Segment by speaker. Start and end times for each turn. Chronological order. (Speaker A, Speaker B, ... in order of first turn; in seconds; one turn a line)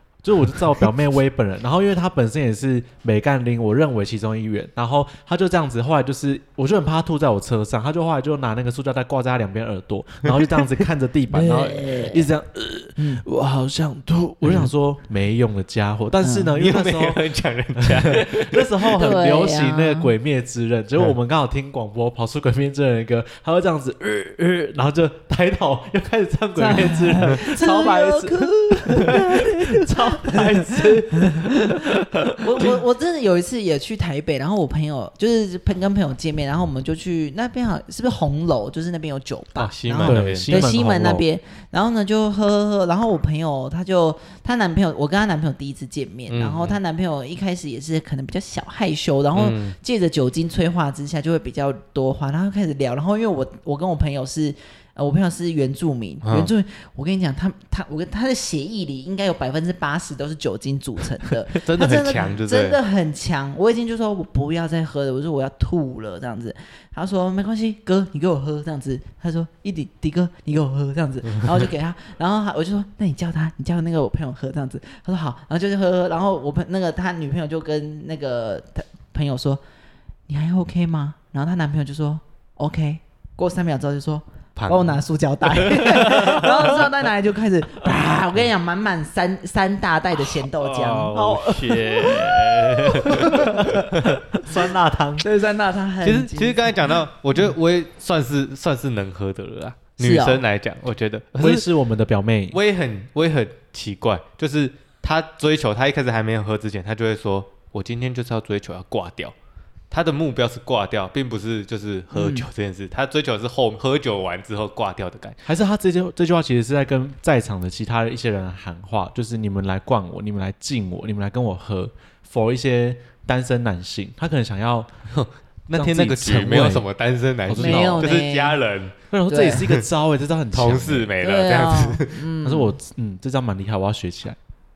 Speaker A: 0.2-32.0
Speaker B: 11.3-12.3
Speaker B: 13.0-13.2
Speaker B: 16.2-16.5
Speaker C: 16.6-18.9
Speaker B: 19.0-20.1
Speaker B: 26.6-79.6
Speaker C: 39.6-40.7
Speaker A: 40.0-41.2
Speaker C: 46.3-46.8
Speaker C: 49.4-49.8
Speaker C: 56.2-56.5
Speaker C: 61.6-62.8
Speaker B: 80.3-91.2
Speaker C: 84.6-85.0
Speaker C: 85.6-86.5
Speaker C: 90.3-94.2
Speaker A: 91.1-95.3
Speaker B: 93.0-93.7
Speaker B: 95.2-96.9
Speaker C: 96.0-101.7
Speaker B: 100.0-100.4
Speaker A: 101.4-102.6
Speaker C: 102.5-109.3
Speaker C: 109.9-115.4
Speaker B: 112.1-112.5
Speaker A: 115.5-124.9
Speaker C: 125.1-128.9
Speaker A: 125.7-126.9
Speaker A: 127.5-128.1
Speaker B: 127.6-128.6
Speaker A: 129.1-131.1
Speaker B: 129.3-129.7
Speaker C: 130.5-132.2
Speaker B: 131.2-132.8
Speaker A: 132.4-134.4